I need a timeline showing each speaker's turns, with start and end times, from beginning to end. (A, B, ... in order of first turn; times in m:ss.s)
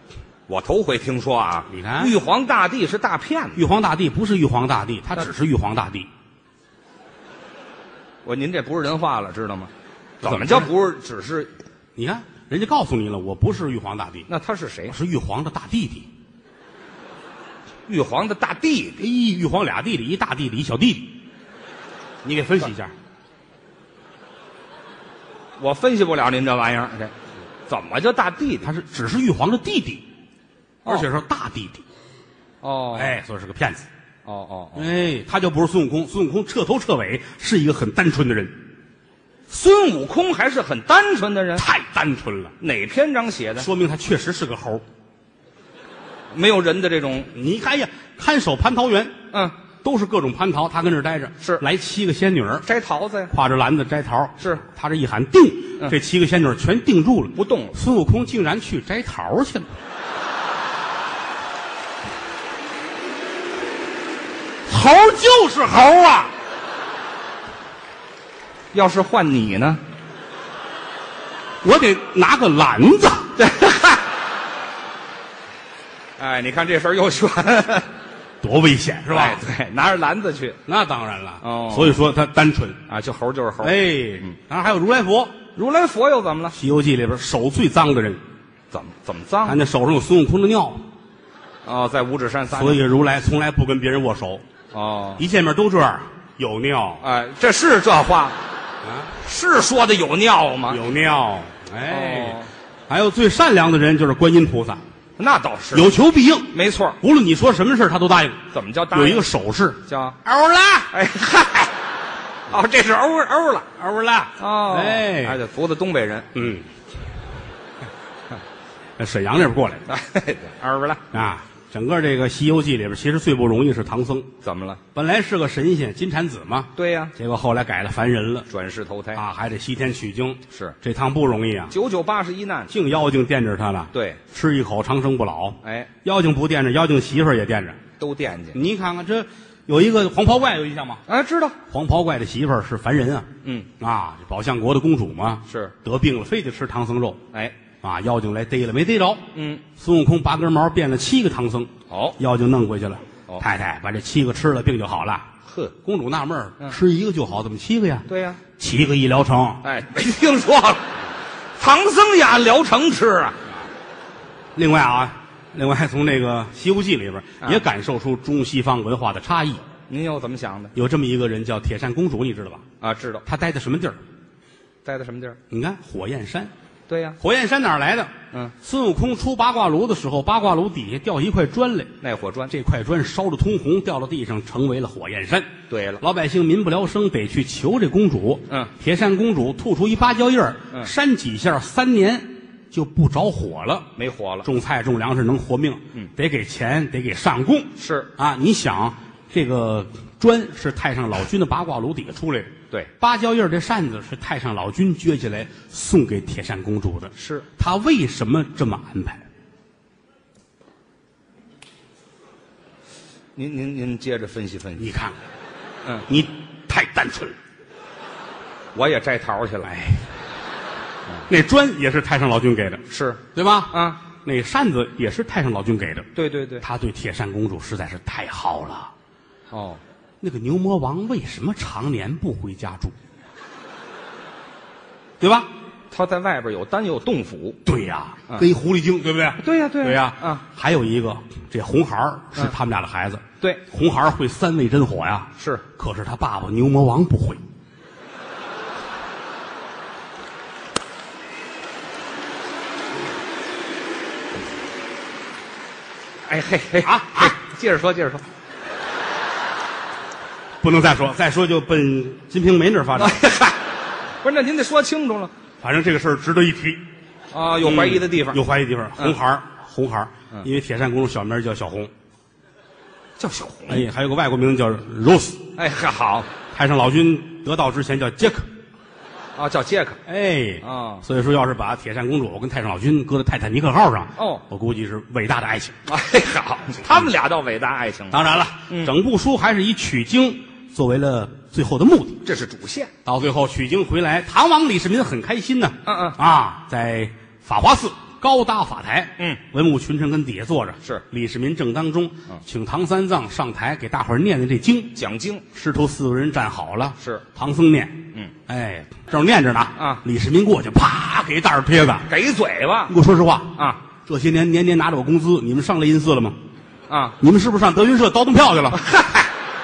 0:00.5-0:03.6 A
0:01.7-0:02.1 B
0:03.6-0:06.1 B
0:08.2-0:09.7 A
0:10.2-0:11.5 A
0:10.2-0:10.7 B
0:12.0-0:14.2 B
0:14.3-0:15.0 A
0:14.9-0:16.1 B
0:17.9-0:19.0 A
0:19.0-0:21.2 B
0:22.2-0:22.9 B
0:25.6-0:27.1 A
0:27.7-0:28.7 A
0:28.6-0:30.0 B
0:30.8-0:31.8 B
0:32.6-0:33.2 A
0:32.9-0:33.9 B
0:34.2-0:34.9 A
0:34.7-0:38.5 B
0:39.5-0:41.6 A
0:41.6-0:42.5 B
0:42.6-0:43.7 A
0:43.6-0:44.8 B
0:46.3-0:47.3 A
0:47.3-0:49.2 B
0:49.8-0:52.6 B
0:52.6-0:53.3 A
0:53.3-0:59.7 B
0:57.4-0:57.8 A
1:04.7-1:06.3 B
1:08.7-1:09.8 A
1:11.6-1:13.3 B
1:13.4-1:14.0 A
1:16.2-1:17.9 A
1:18.4-1:19.4 B
1:19.1-1:20.6 A
1:20.6-1:22.8 B
1:21.4-1:22.0 A
1:22.9-1:24.3 A
1:23.6-1:25.3 B
1:25.6-1:26.6 A
1:26.5-1:28.2 B
1:28.7-1:29.6 A
1:29.4-1:30.8 B
1:31.6-1:32.8 A
1:32.5-1:34.4 B
1:34.7-1:35.2 A
1:35.2-1:37.0 B
1:37.0-1:38.4 A
1:38.8-1:39.1 B
1:39.2-1:40.8 A
1:40.7-1:44.8 B
1:41.9-1:42.5 A
1:45.2-1:45.9 A
1:45.7-1:50.9 B
1:46.5-1:47.0 A
1:48.5-1:49.3 A
1:49.8-1:50.2 A
1:50.9-1:51.7 A
1:52.5-1:53.7 A
1:53.8-1:55.4 B
1:54.4-1:56.3 A
1:56.3-1:56.7 B
1:59.0-1:59.8 B
1:59.9-2:01.1 A
2:01.1-2:04.3 B
2:04.4-2:04.8 A
2:04.9-2:08.5 B
2:06.8-2:07.1 A
2:08.5-2:09.2 A
2:09.2-2:11.7 B
2:11.7-2:12.7 A
2:12.7-2:17.8 B
2:13.9-2:14.2 A
2:15.6-2:15.9 A
2:18.0-2:18.6 A
2:18.5-2:21.0 B
2:21.1-2:21.6 A
2:21.7-2:23.3 B
2:23.8-2:27.2 B
2:25.5-2:25.7 A
2:27.8-2:35.3 B
2:29.3-2:29.6 A
2:31.9-2:32.2 A
2:35.4-2:35.7 A
2:35.8-2:38.1 B
2:38.1-2:38.4 A
2:38.6-2:39.6 B
2:39.6-2:40.9 A
2:41.6-2:43.4 A
2:44.5-2:49.6 B
2:49.9-2:50.7 A
2:50.7-2:52.6 B
2:52.8-2:53.2 A
2:53.2-2:54.0 B
2:54.8-2:55.4 A
2:55.5-2:56.5 B
2:56.9-2:57.2 A
2:57.2-3:01.9 B
3:02.0-3:02.5 A
3:02.5-3:13.9 B
3:05.7-3:06.0 A
3:14.0-3:14.5 A
3:14.4-3:29.2 B
3:17.8-3:18.1 A
3:27.2-3:27.4 A
3:33.4-3:34.9 A
3:34.8-3:35.2 B
3:36.1-3:37.4 B
3:38.7-3:39.7 A
3:39.6-3:40.1 B
3:41.3-3:42.8 B
3:42.9-3:44.0 A
3:43.3-3:46.1 B
3:46.1-3:46.6 A
3:46.6-3:48.9 B
3:49.5-3:49.8 A
3:50.2-3:53.0 B
3:55.2-3:55.5 B
3:55.9-3:57.6 A
3:57.6-4:07.4 B
3:59.4-4:00.4 A
4:05.4-4:05.6 A
4:16.3-4:18.2 A
4:16.8-4:17.4 B
4:20.6-4:23.2 B
4:23.0-4:23.6 A
4:24.2-4:25.3 A
4:25.6-4:26.8 B
4:27.3-4:28.4 A
4:27.6-4:31.9 B
4:33.2-4:33.8 A
4:33.7-4:35.4 B
4:35.6-4:36.3 A
4:36.5-4:38.5 B
4:39.4-4:40.0 A
4:40.1-4:45.7 B
4:40.6-4:41.0 A
4:44.2-4:44.4 A
4:45.8-4:48.2 A
4:48.1-4:52.2 B
4:52.2-4:52.9 A
4:53.0-5:04.9 B
4:55.8-4:56.2 A
5:04.9-5:05.4 A
5:05.5-5:12.1 B
5:07.0-5:07.2 A
5:09.8-5:10.0 A
5:12.1-5:12.9 A
5:12.9-5:16.4 B
5:16.9-5:17.2 A
5:17.2-5:18.8 B
5:18.7-5:19.3 A